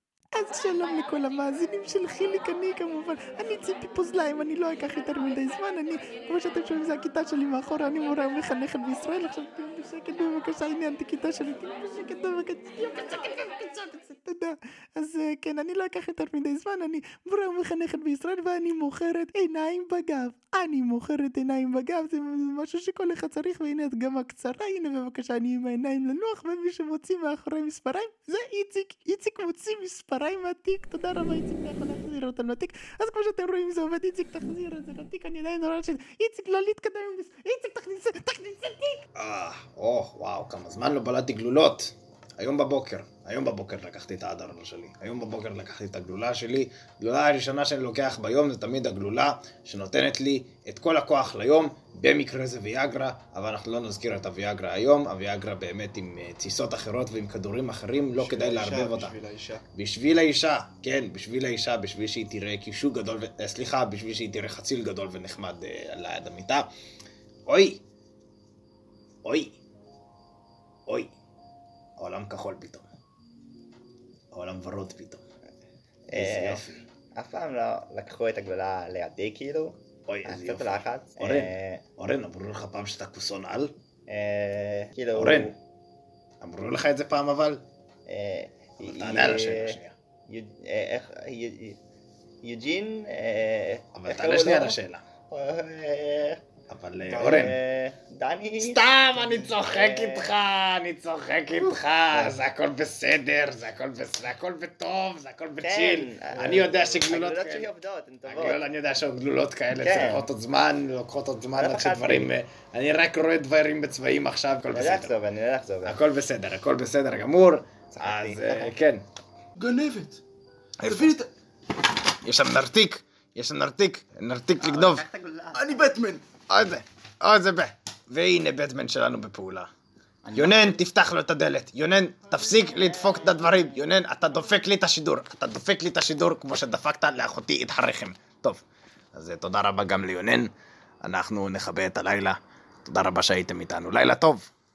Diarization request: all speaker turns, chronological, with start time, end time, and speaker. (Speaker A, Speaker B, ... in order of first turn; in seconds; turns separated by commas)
Speaker A: 0.3-39.0, Speaker B: 39.1-59.1, Speaker C: 58.1-59.6, Speaker B: 59.8-66.7, Speaker B: 67.5-67.8, Speaker B: 69.2-69.6, Speaker B: 72.0-72.9, Speaker B: 74.3-75.2, Speaker D: 76.1-81.8, Speaker B: 76.1-76.8, Speaker B: 80.1-83.8, Speaker D: 84.1-85.5, Speaker B: 85.1-85.6, Speaker B: 86.4-87.7, Speaker D: 88.1-91.8, Speaker B: 88.8-89.9, Speaker D: 92.4-94.8, Speaker B: 94.0-95.0, Speaker D: 95.3-96.4, Speaker B: 96.7-97.6, Speaker C: 97.0-97.5, Speaker D: 97.2-100.3, Speaker B: 98.6-107.7, Speaker D: 105.6-108.6, Speaker B: 108.3-115.2, Speaker D: 109.8-110.3, Speaker D: 111.6-112.3, Speaker D: 114.7-116.0, Speaker B: 115.8-119.0, Speaker D: 118.0-118.8, Speaker C: 119.6-120.2, Speaker B: 120.8-121.1, Speaker C: 120.8-121.3, Speaker B: 122.2-125.0, Speaker D: 124.6-125.8, Speaker C: 125.5-126.3, Speaker B: 126.5-129.7, Speaker D: 130.2-130.8, Speaker B: 130.3-138.6, Speaker D: 132.5-133.8, Speaker B: 139.2-140.5, Speaker B: 141.0-144.5